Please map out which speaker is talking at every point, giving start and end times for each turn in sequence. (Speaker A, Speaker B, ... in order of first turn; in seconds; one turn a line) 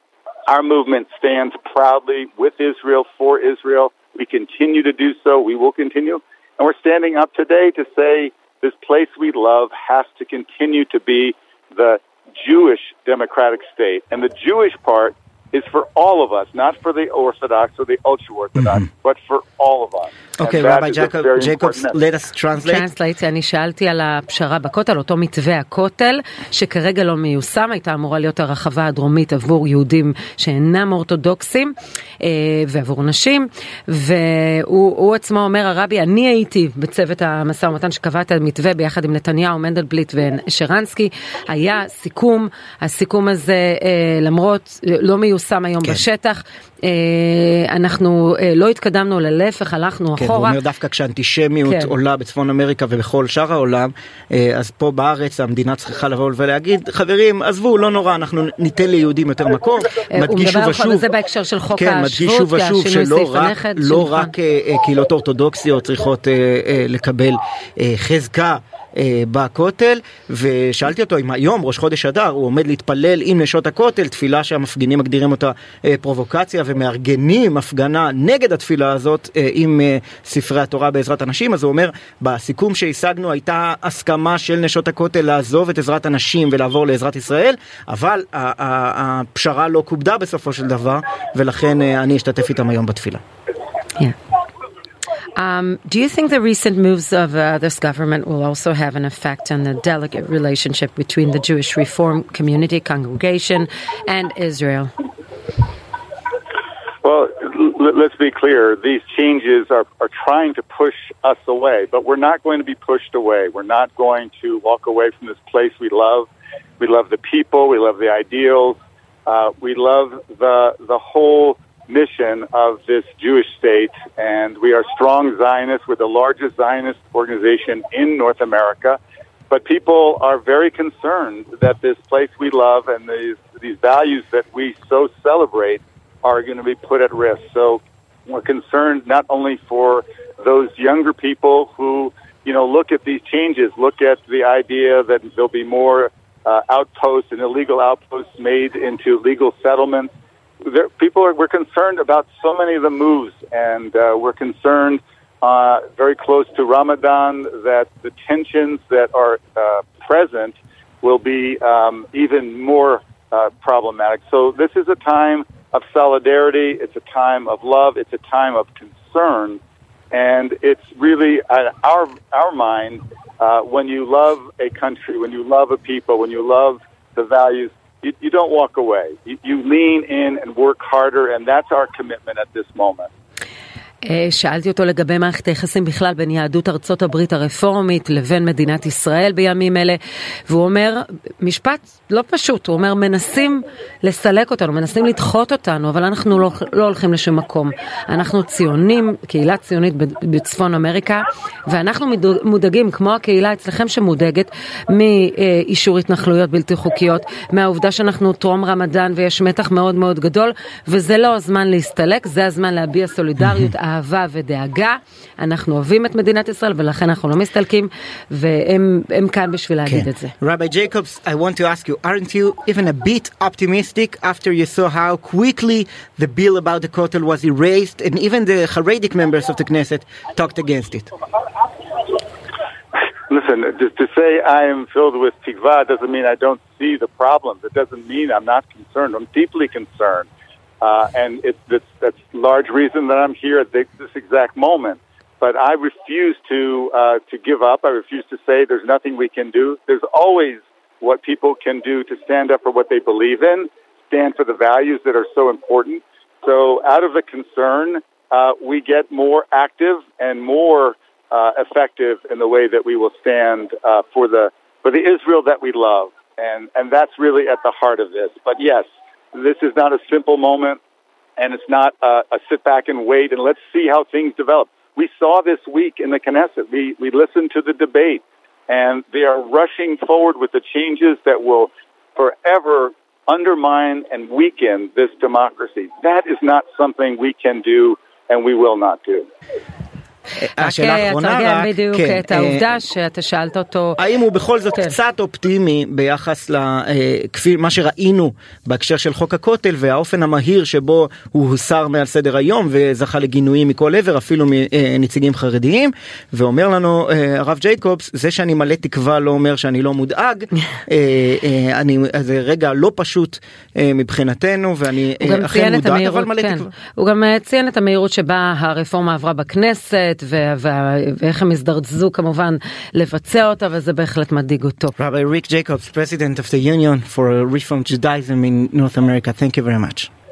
Speaker A: 0.5-22.0
Speaker B: 20.4-22.9
Speaker C: 22.6-50.6
Speaker B: 50.2-61.1
Speaker C: 51.7-51.9
Speaker C: 60.1-64.3
Speaker B: 61.7-93.2
Speaker C: 95.4-104.9
Speaker A: 107.0-169.6
Speaker A: 170.1-183.1
Speaker C: 184.0-220.3
Speaker B: 219.9-231.1
Speaker A: 233.3-240.3
Speaker A: 240.8-270.8
Speaker A: 271.4-289.3
Speaker B: 290.4-292.7
Speaker C: 290.6-294.0
Speaker B: 294.0-316.7
Speaker C: 315.2-324.9
Speaker B: 325.0-330.1